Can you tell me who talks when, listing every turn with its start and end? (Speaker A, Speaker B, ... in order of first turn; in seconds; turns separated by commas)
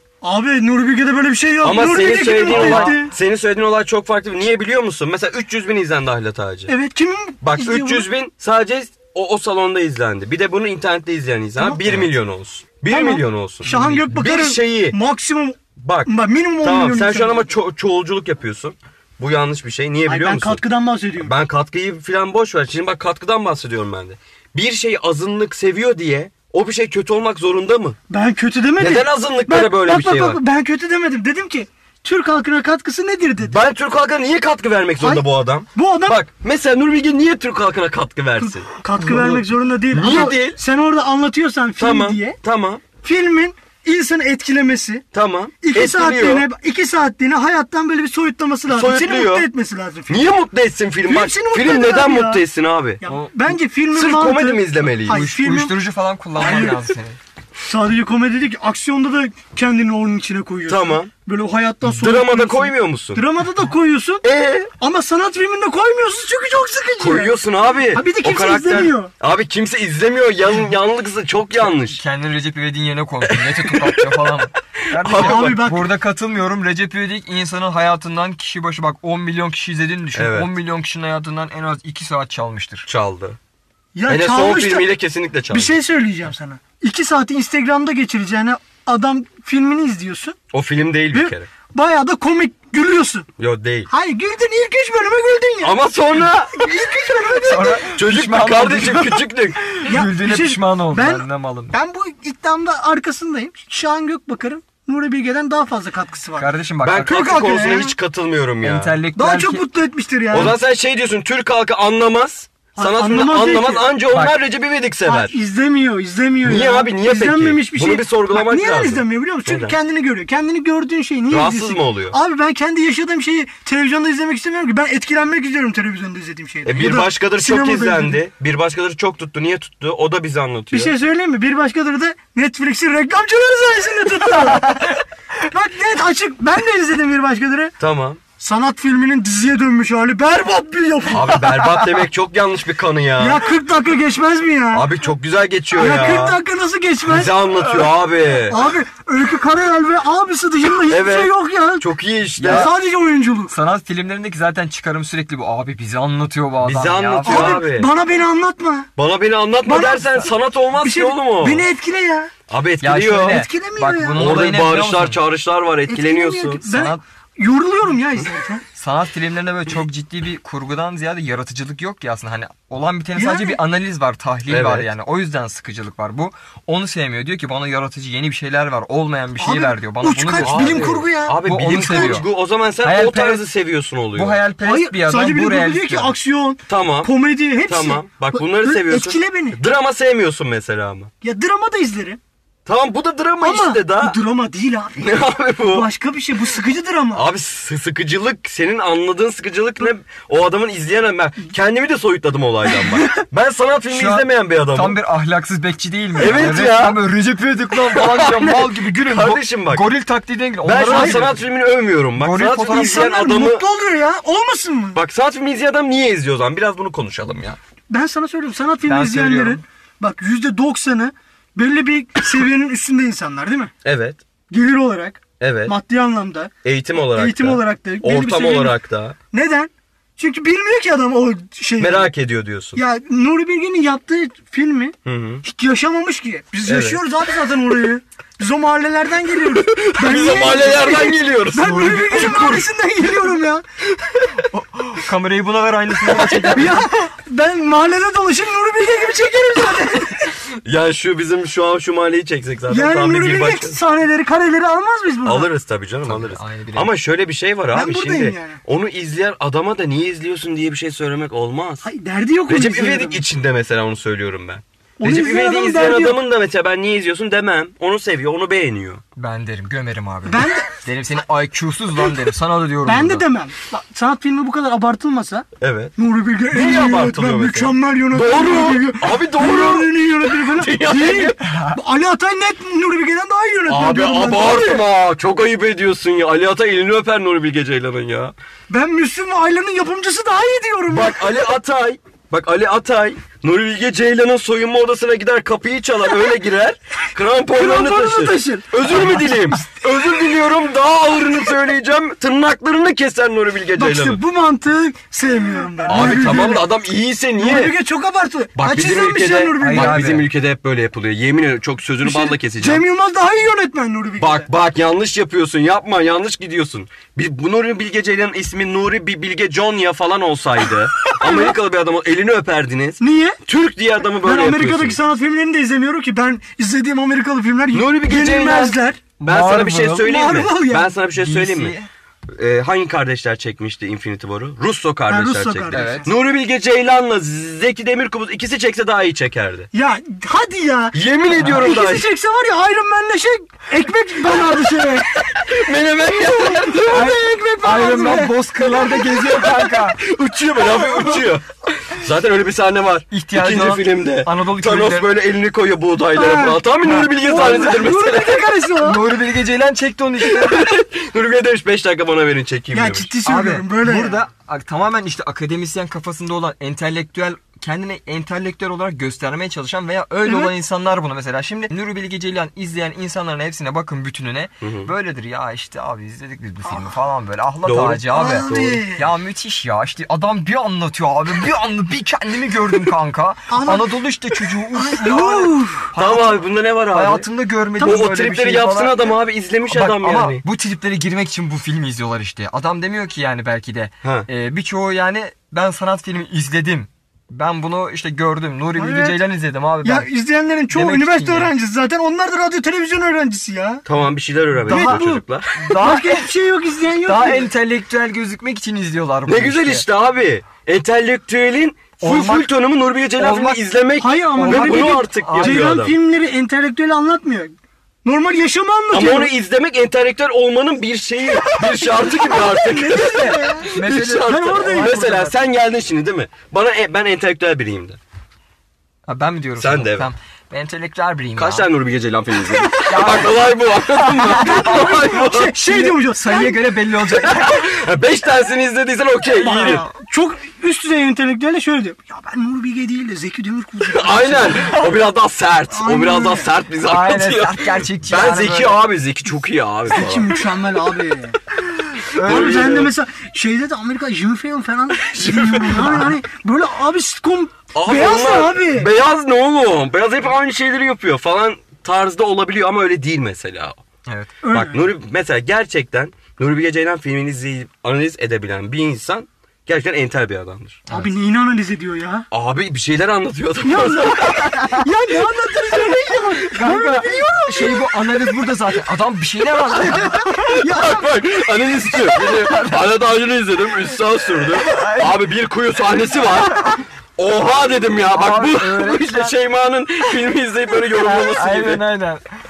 Speaker A: 0.2-3.1, Speaker B: 1.6-6.7, Speaker C: 2.5-3.0, Speaker A: 6.7-8.1, Speaker B: 7.4-15.0, Speaker A: 11.6-12.0, Speaker A: 12.9-17.4, Speaker C: 13.7-14.1, Speaker B: 15.8-16.1, Speaker B: 16.6-20.6, Speaker A: 20.1-21.3, Speaker B: 21.2-28.0, Speaker A: 28.1-33.6, Speaker B: 28.8-30.4, Speaker B: 33.4-40.6, Speaker A: 35.8-36.2, Speaker A: 38.4-42.4, Speaker B: 41.8-42.8, Speaker A: 43.0-45.0, Speaker B: 45.1-46.5, Speaker A: 45.6-50.2, Speaker B: 48.7-49.5, Speaker B: 50.1-53.0, Speaker A: 51.1-52.4, Speaker A: 53.0-55.7, Speaker B: 53.9-55.3, Speaker C: 55.1-57.2, Speaker A: 56.4-56.9, Speaker A: 57.6-64.2, Speaker B: 60.7-61.1, Speaker B: 61.8-63.2, Speaker B: 64.2-64.7, Speaker A: 64.8-67.3, Speaker B: 67.0-72.0, Speaker A: 67.9-69.1, Speaker C: 71.9-82.9, Speaker B: 73.3-74.2, Speaker B: 75.0-75.6, Speaker A: 75.1-75.9, Speaker B: 80.1-80.5, Speaker B: 82.9-83.4, Speaker A: 84.0-84.9, Speaker B: 84.1-85.8, Speaker A: 85.5-90.4, Speaker B: 90.5-91.5, Speaker A: 91.1-93.3, Speaker B: 93.4-93.9, Speaker A: 93.9-97.8, Speaker B: 95.6-96.9, Speaker C: 97.4-101.7, Speaker B: 97.8-99.6, Speaker A: 99.8-106.5, Speaker C: 106.4-107.3, Speaker B: 106.8-109.0, Speaker A: 107.0-107.9, Speaker C: 108.6-109.6, Speaker A: 109.2-110.5, Speaker B: 110.3-115.4, Speaker A: 112.8-113.9, Speaker C: 114.1-114.4, Speaker A: 115.1-128.2, Speaker B: 116.4-119.8, Speaker B: 121.3-122.2, Speaker B: 126.7-130.9, Speaker A: 130.7-137.7, Speaker B: 137.8-138.2, Speaker A: 138.4-141.7, Speaker B: 141.1-143.4, Speaker A: 143.2-144.9, Speaker B: 144.7-146.4, Speaker A: 145.8-147.3, Speaker B: 147.1-148.7, Speaker A: 148.5-151.9, Speaker B: 150.9-152.7, Speaker C: 152.4-152.7, Speaker A: 152.4-153.6, Speaker C: 153.5-157.7, Speaker B: 156.6-157.9, Speaker A: 157.2-158.9, Speaker B: 159.0-161.7, Speaker A: 159.7-160.3, Speaker A: 160.8-162.3, Speaker B: 162.5-163.5, Speaker C: 162.8-165.2, Speaker A: 163.2-164.3, Speaker B: 164.2-166.7, Speaker A: 165.9-168.6, Speaker C: 166.7-167.0, Speaker C: 168.7-182.3, Speaker A: 173.2-173.6, Speaker B: 174.5-174.9, Speaker A: 179.4-182.2, Speaker B: 180.4-184.4, Speaker C: 182.8-183.4, Speaker C: 184.2-186.1, Speaker A: 184.6-189.6, Speaker B: 186.7-187.1, Speaker B: 187.7-191.1, Speaker A: 191.2-192.2, Speaker B: 192.7-194.2, Speaker A: 193.4-197.2, Speaker B: 195.0-195.9, Speaker B: 197.1-205.0, Speaker C: 203.9-211.4, Speaker B: 206.2-207.0, Speaker B: 207.8-209.9, Speaker B: 210.6-213.6, Speaker A: 210.8-211.2, Speaker C: 212.2-213.0, Speaker A: 212.7-215.0, Speaker B: 214.9-217.6, Speaker A: 217.9-223.7, Speaker C: 218.9-219.6, Speaker B: 223.8-224.2, Speaker A: 224.5-226.5, Speaker B: 225.4-225.8, Speaker B: 226.7-229.2, Speaker A: 227.2-228.8, Speaker A: 229.3-232.1, Speaker B: 231.8-232.8, Speaker A: 232.8-243.6, Speaker B: 235.1-235.4, Speaker B: 236.7-237.0, Speaker B: 239.5-242.7, Speaker C: 244.5-246.8, Speaker B: 246.1-246.6, Speaker A: 246.5-250.3, Speaker B: 250.7-253.8, Speaker A: 252.7-255.5, Speaker B: 255.2-261.8, Speaker C: 256.1-256.9, Speaker A: 257.7-258.6, Speaker A: 261.8-263.2, Speaker B: 262.5-269.0, Speaker A: 265.0-266.2, Speaker C: 269.2-273.2, Speaker A: 270.3-270.7, Speaker A: 272.9-284.8, Speaker B: 275.6-275.9, Speaker B: 276.5-281.4, Speaker C: 281.5-281.8, Speaker B: 283.7-288.3, Speaker A: 288.7-291.2, Speaker B: 290.9-304.2, Speaker A: 297.5-299.6, Speaker A: 303.8-306.7, Speaker B: 305.9-307.8, Speaker A: 307.4-310.2, Speaker B: 308.6-312.8, Speaker C: 309.6-310.3, Speaker A: 312.0-314.5, Speaker B: 314.2-325.0, Speaker A: 321.2-321.5, Speaker A: 323.0-323.4, Speaker A: 324.2-329.0, Speaker B: 327.7-331.8, Speaker C: 329.2-330.1, Speaker A: 330.0-330.9, Speaker C: 331.1-331.9, Speaker B: 332.3-339.7, Speaker A: 335.1-336.1, Speaker C: 335.7-336.1, Speaker A: 339.7-345.4, Speaker B: 340.9-342.1, Speaker B: 345.3-347.1, Speaker A: 346.4-348.4, Speaker C: 346.9-350.0, Speaker B: 349.2-358.5, Speaker C: 353.1-355.1, Speaker A: 356.1-359.1, Speaker C: 356.9-357.8, Speaker C: 358.8-360.7, Speaker B: 360.2-363.1, Speaker A: 362.7-364.2, Speaker C: 363.3-389.1, Speaker A: 370.3-370.5, Speaker B: 374.6-374.9, Speaker A: 376.7-376.9, Speaker B: 377.6-378.8, Speaker A: 378.1-379.1, Speaker A: 383.5-383.9, Speaker A: 384.7-385.9, Speaker B: 386.0-387.3, Speaker B: 387.8-390.4, Speaker C: 389.7-400.1, Speaker B: 394.0-394.3, Speaker A: 398.8-399.2, Speaker A: 399.8-403.9, Speaker C: 400.7-401.5, Speaker B: 403.9-405.7, Speaker C: 404.7-405.0, Speaker A: 404.7-405.2, Speaker C: 405.6-406.3, Speaker A: 405.8-407.5, Speaker C: 407.0-409.9, Speaker B: 409.3-415.9, Speaker C: 412.0-412.5, Speaker C: 413.2-413.6, Speaker A: 414.0-417.5, Speaker C: 414.4-415.7, Speaker A: 418.1-419.3, Speaker B: 418.9-428.0, Speaker C: 421.8-425.4, Speaker A: 422.0-425.1, Speaker C: 429.1-431.7, Speaker B: 429.6-430.1, Speaker B: 431.4-435.8, Speaker C: 432.8-434.9, Speaker A: 434.2-436.6, Speaker C: 435.7-437.8, Speaker B: 437.2-439.8, Speaker C: 439.4-439.9, Speaker A: 439.4-444.8, Speaker B: 443.9-450.4, Speaker A: 445.7-446.5, Speaker C: 446.8-448.8, Speaker A: 449.9-451.4, Speaker C: 452.0-452.9, Speaker A: 452.2-458.9, Speaker B: 452.2-452.9, Speaker B: 455.1-455.9, Speaker C: 455.7-456.1, Speaker B: 457.7-463.8, Speaker C: 464.1-464.3, Speaker A: 464.4-464.9, Speaker B: 464.5-470.8, Speaker A: 470.9-472.3, Speaker B: 472.3-474.8, Speaker A: 473.6-477.9, Speaker C: 476.4-480.6, Speaker B: 480.2-491.8, Speaker A: 480.4-481.1, Speaker C: 482.1-482.8, Speaker C: 484.5-485.2, Speaker C: 488.1-489.4, Speaker C: 490.8-492.2